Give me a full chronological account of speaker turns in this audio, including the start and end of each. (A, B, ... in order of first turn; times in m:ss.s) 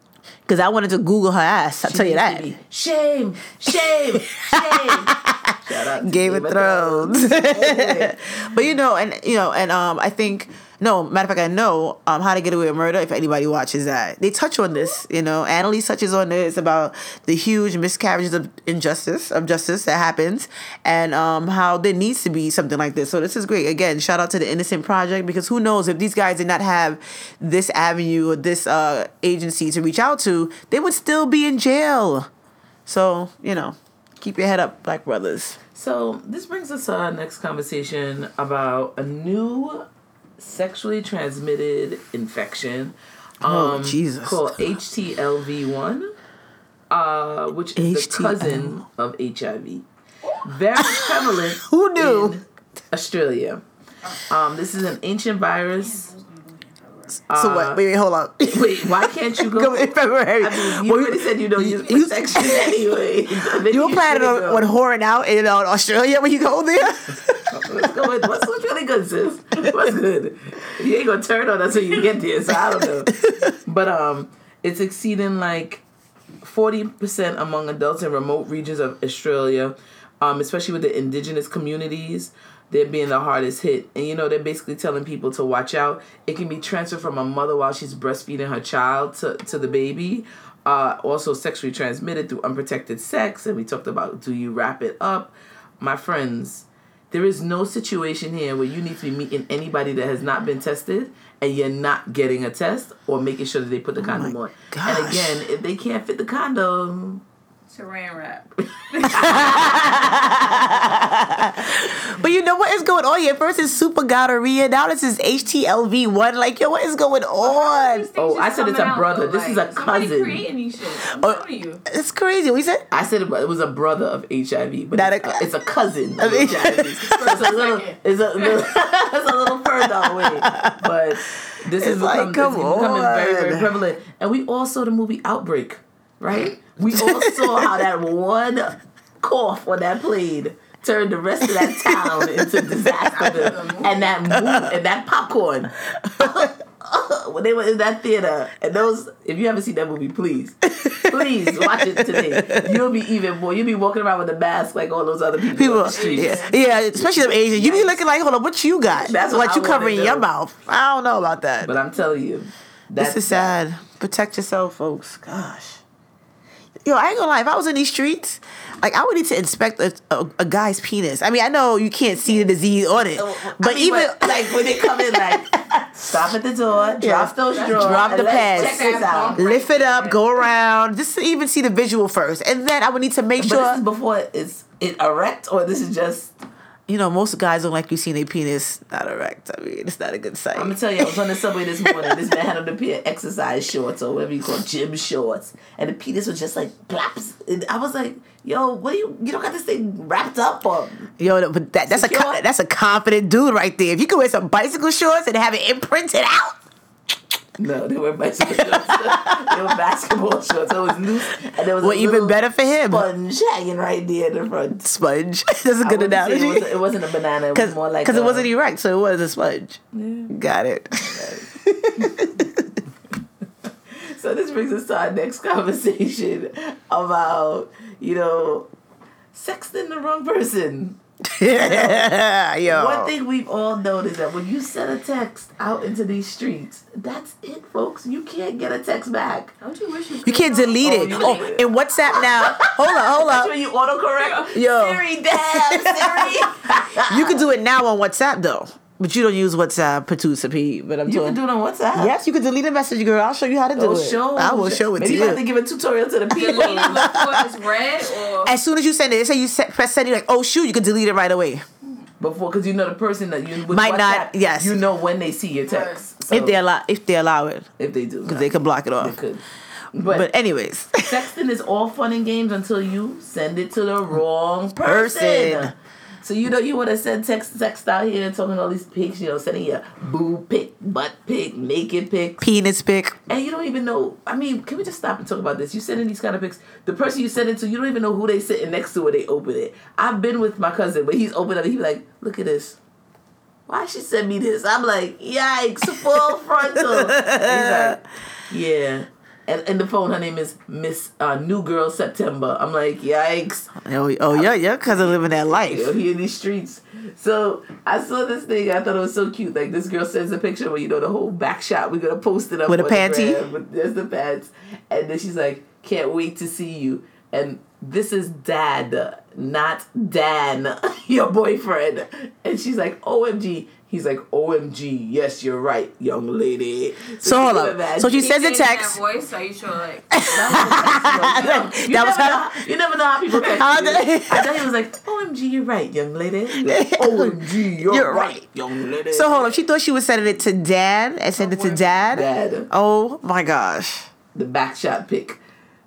0:00.5-0:02.4 A
0:01.8-0:08.2 B
0:03.7-0:32.3 A
0:32.9-0:35.6 A
0:35.7-0:39.9 B
0:40.4-0:46.1 B
0:43.4-0:44.6 A
0:46.9-0:49.8 B
0:47.8-0:48.8 A
0:50.4-0:53.6 B
0:50.8-0:52.4 A
0:54.2-0:56.1 B
0:55.8-0:57.2 C
0:57.3-1:07.8 A
0:57.3-0:57.8 B
0:58.4-1:04.7 B
1:07.5-1:15.8 B
1:13.1-1:13.5 A
1:16.4-1:47.2 B
1:44.0-1:45.4 A
1:47.7-1:50.7 C
1:49.0-1:50.8 B
1:49.2-1:58.1 A
1:57.4-2:01.8 C
1:58.2-2:00.4 B
2:01.1-2:02.8 A
2:02.9-2:38.0 B
2:04.9-2:05.5 A
2:06.2-2:07.5 A
2:07.0-2:08.0 C
2:09.8-2:10.8 A
2:11.8-2:13.7 A
2:16.8-2:17.8 A
2:21.4-2:23.4 A
2:23.2-2:24.1 C
2:24.3-2:24.7 A
2:26.0-2:26.5 A
2:30.7-2:32.8 A
2:35.6-2:41.7 A
2:35.8-2:36.6 C
2:38.9-2:40.3 B
2:41.6-2:43.5 B
2:43.0-2:45.8 A
2:46.8-2:56.2 A
2:53.2-2:59.4 B
2:57.0-3:03.8 A
2:57.5-3:00.4 C
3:03.4-3:06.4 B
3:06.9-3:11.2 A
3:10.6-3:21.1 B
3:11.8-3:12.2 A
3:21.2-3:26.6 A
3:21.9-3:22.4 B
3:27.6-3:34.9 B
3:28.4-3:29.8 A
3:31.8-3:33.1 A
3:34.8-3:36.8 A
3:35.8-3:38.5 B
3:37.5-3:42.7 A
3:39.9-3:40.3 B
3:41.0-3:42.3 B
3:43.9-3:48.7 B
3:49.3-3:52.1 B
3:51.3-3:53.1 A
3:52.7-3:59.5 B
3:59.6-4:01.6 C
4:00.2-4:03.5 A
4:00.8-4:07.4 B
4:04.5-4:11.4 A
4:11.1-4:12.2 B
4:11.9-4:15.4 A
4:13.8-4:17.0 B
4:16.3-4:18.5 C
4:16.4-4:17.5 A
4:18.4-4:21.6 A
4:22.2-4:26.6 B
4:23.7-4:24.8 A
4:25.7-4:26.0 C
4:26.3-4:27.7 A
4:27.8-4:30.3 B
4:28.3-4:29.2 A
4:30.0-4:31.2 A
4:31.1-4:42.4 B
4:34.8-4:35.7 A
4:42.4-4:43.2 A
4:43.3-4:52.8 B
4:53.7-5:03.7 B
4:56.8-4:58.0 A
5:03.8-5:05.9 A
5:04.3-5:28.2 B
5:12.7-5:13.4 A
5:27.2-5:29.0 A
5:28.0-5:30.6 C
5:30.1-5:32.6 A
5:30.2-5:39.5 B
5:33.3-5:34.6 A
5:36.6-5:38.4 A
5:39.1-5:44.1 A
5:41.4-5:42.1 C
5:42.1-5:42.7 B
5:44.4-5:45.4 B